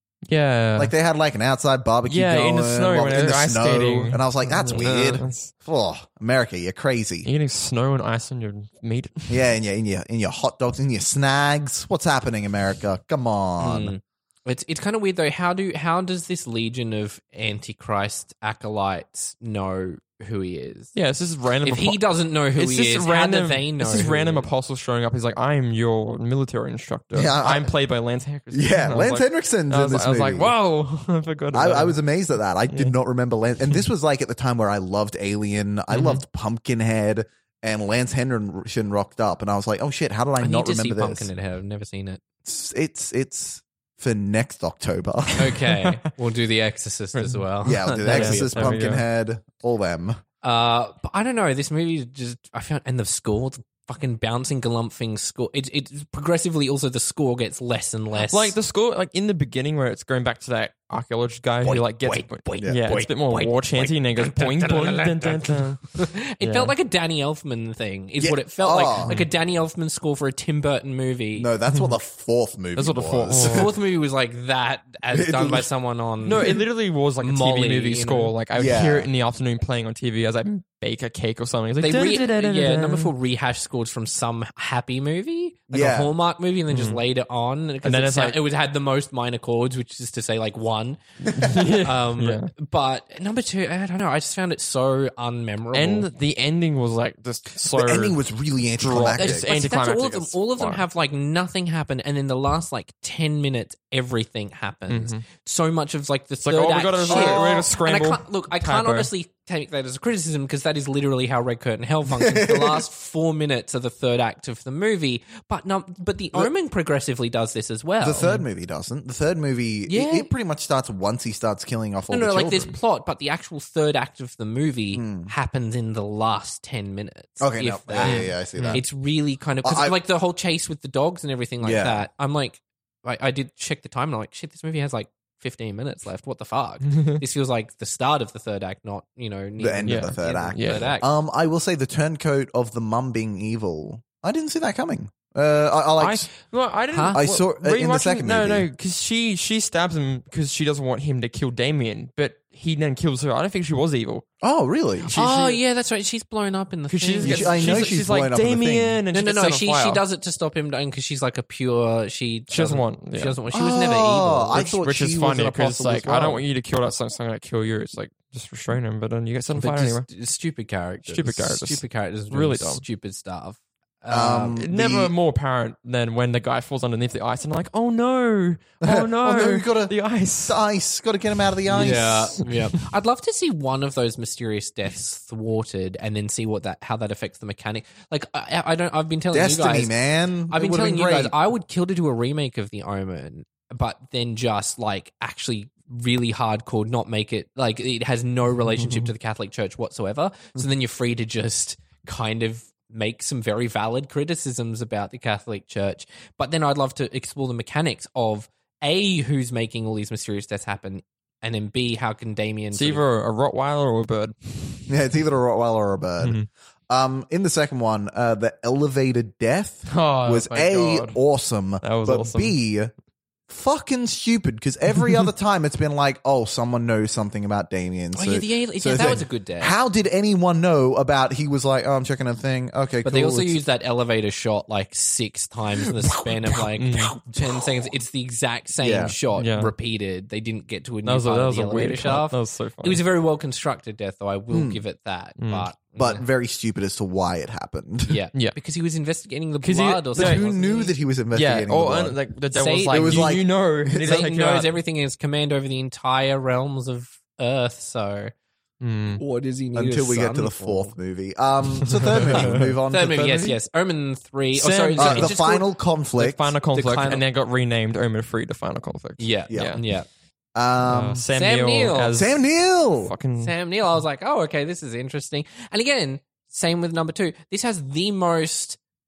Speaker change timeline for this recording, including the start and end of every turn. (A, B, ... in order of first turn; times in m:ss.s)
0:00.3-0:00.9 A
0:00.8-0:07.3 B
0:02.1-0:05.5 A
0:04.8-0:05.2 C
0:07.2-0:09.4 A
0:09.3-0:13.9 B
0:13.6-0:20.9 C
0:20.9-0:32.0 A
0:21.6-0:24.5 C
0:27.1-0:27.7 B
0:28.5-0:30.5 B
0:31.5-0:41.3 B
0:35.9-0:36.2 A
0:40.4-0:42.2 C
0:42.4-0:45.6 B
0:45.4-0:48.8 C
0:47.2-0:47.4 A
0:47.6-0:50.2 B
0:48.0-0:49.0 A
0:50.4-0:58.6 C
0:58.2-1:06.7 A
1:01.6-1:11.5 C
1:02.6-1:02.8 B
1:08.2-1:09.1 B
1:11.4-1:13.7 B
1:12.8-1:13.7 A
1:13.4-1:16.6 C
1:15.1-1:15.7 B
1:16.2-1:23.1 A
1:17.2-1:18.3 C
1:18.6-1:19.1 B
1:21.8-1:31.0 C
1:25.7-1:26.1 B
1:26.7-1:27.0 A
1:27.8-1:28.4 A
1:31.3-1:31.6 B
1:31.3-1:32.5 A
1:31.6-1:36.1 C
1:35.7-1:38.2 A
1:37.7-1:39.5 B
1:38.8-1:40.8 A
1:39.1-1:58.3 C
1:44.9-1:45.3 A
1:46.4-1:49.1 A
1:47.1-1:47.5 B
1:52.1-1:52.8 B
1:58.0-2:02.7 B
1:59.9-2:00.3 C
2:02.1-2:21.1 C
2:04.9-2:05.3 B
2:07.4-2:08.8 B
2:08.0-2:08.8 A
2:09.6-2:10.0 B
2:11.6-2:12.1 B
2:16.8-2:17.2 A
2:19.6-2:26.3 B
2:19.8-2:21.0 A
2:26.0-2:34.2 A
2:26.9-2:27.2 C
2:27.1-2:28.7 B
2:34.4-2:35.1 B
2:35.1-2:35.6 A
2:35.1-2:37.9 C
2:36.9-2:40.0 A
2:37.2-2:39.0 B
2:39.1-2:44.6 C
2:42.5-2:43.4 A
2:43.5-2:46.4 B
2:44.6-2:50.1 A
2:49.5-2:54.6 C
2:51.1-2:52.8 A
2:54.1-2:55.1 B
2:54.6-3:00.6 A
2:58.8-3:02.3 B
3:01.7-3:09.9 C
3:01.8-3:02.4 A
3:09.3-3:11.3 B
3:10.5-3:33.0 C
3:32.7-3:34.8 A
3:34.9-3:36.4 B
3:36.2-3:36.5 A
3:36.9-3:42.9 B
3:39.9-3:41.2 A
3:41.8-3:42.5 A
3:43.5-3:53.6 B
3:48.2-3:49.8 C
3:53.0-4:06.2 C
3:56.8-3:57.2 A
3:58.8-3:59.2 B
3:59.4-3:59.7 A
4:01.0-4:03.0 A
4:04.5-4:04.8 B
4:05.4-4:05.7 A
4:06.0-4:08.2 B
4:08.1-4:10.9 C
4:09.6-4:10.5 A
4:10.2-4:12.2 B
4:11.3-4:14.7 A
4:12.5-4:13.4 C
4:12.9-4:14.2 B
4:14.0-4:18.3 C
4:18.8-4:19.2 A
4:19.2-4:21.0 C
4:19.8-4:23.6 B
4:21.8-4:22.8 A
4:22.2-4:25.6 C
4:24.5-4:25.4 A
4:25.0-4:26.5 B
4:26.2-4:29.8 A
4:26.7-4:27.2 C
4:29.2-4:30.1 C
4:29.5-4:29.8 B
4:30.6-4:31.2 B
4:30.8-4:32.4 A
4:31.3-4:32.2 C
4:32.1-4:33.1 B
4:33.0-4:33.5 A
4:33.4-4:38.8 C